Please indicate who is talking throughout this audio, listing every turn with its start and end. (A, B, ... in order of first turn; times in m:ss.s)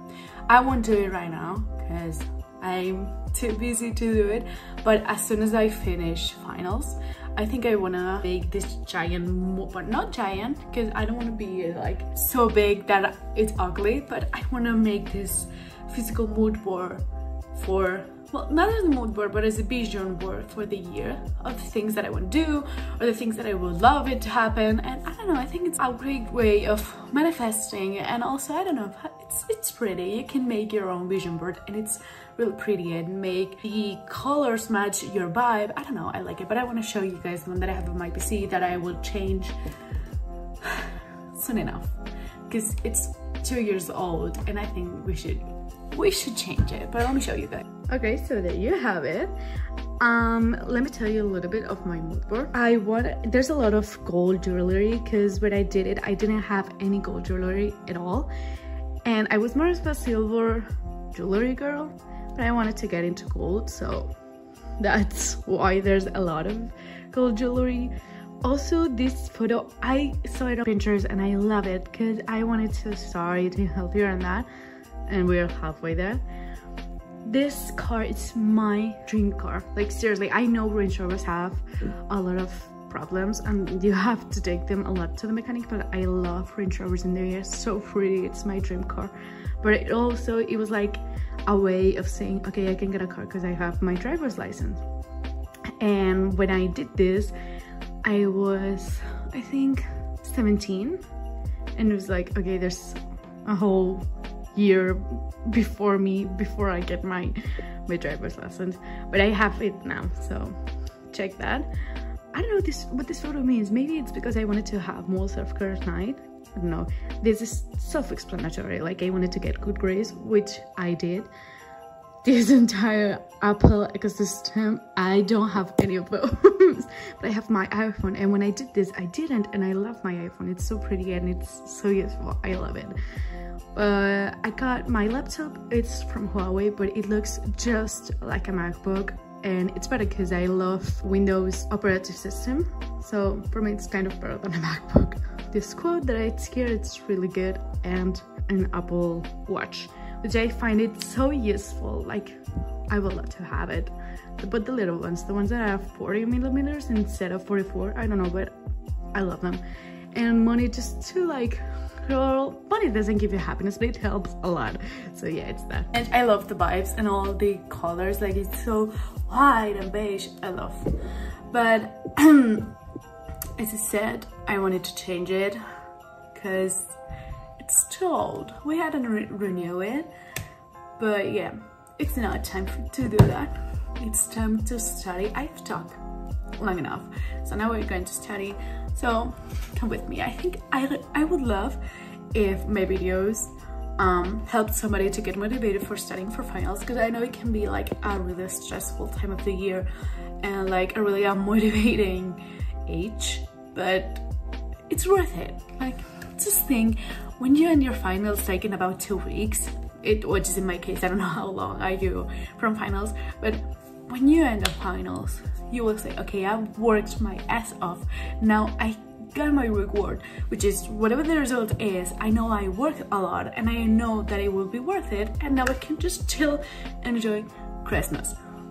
0:00.5-0:39.6 A
0:40.6-0:41.9 A
0:42.5-0:49.3 A
0:50.0-0:58.3 A
0:59.0-1:04.1 A
1:04.8-1:14.5 A
1:15.1-1:16.2 A
1:17.2-1:34.8 A
1:35.8-1:37.3 A
1:38.0-1:41.0 A
1:41.7-1:50.6 A
1:51.1-1:51.7 A
1:52.3-2:01.3 A
2:02.2-2:13.0 A
2:13.7-2:38.6 A
2:39.1-2:51.0 A
2:51.5-2:52.8 A
2:53.6-2:55.6 A
2:56.3-2:57.0 A
2:57.6-3:00.1 A
3:01.0-3:06.0 A
3:06.6-3:11.8 A
3:12.3-3:19.9 A
3:20.4-3:24.2 A
3:24.9-3:48.4 A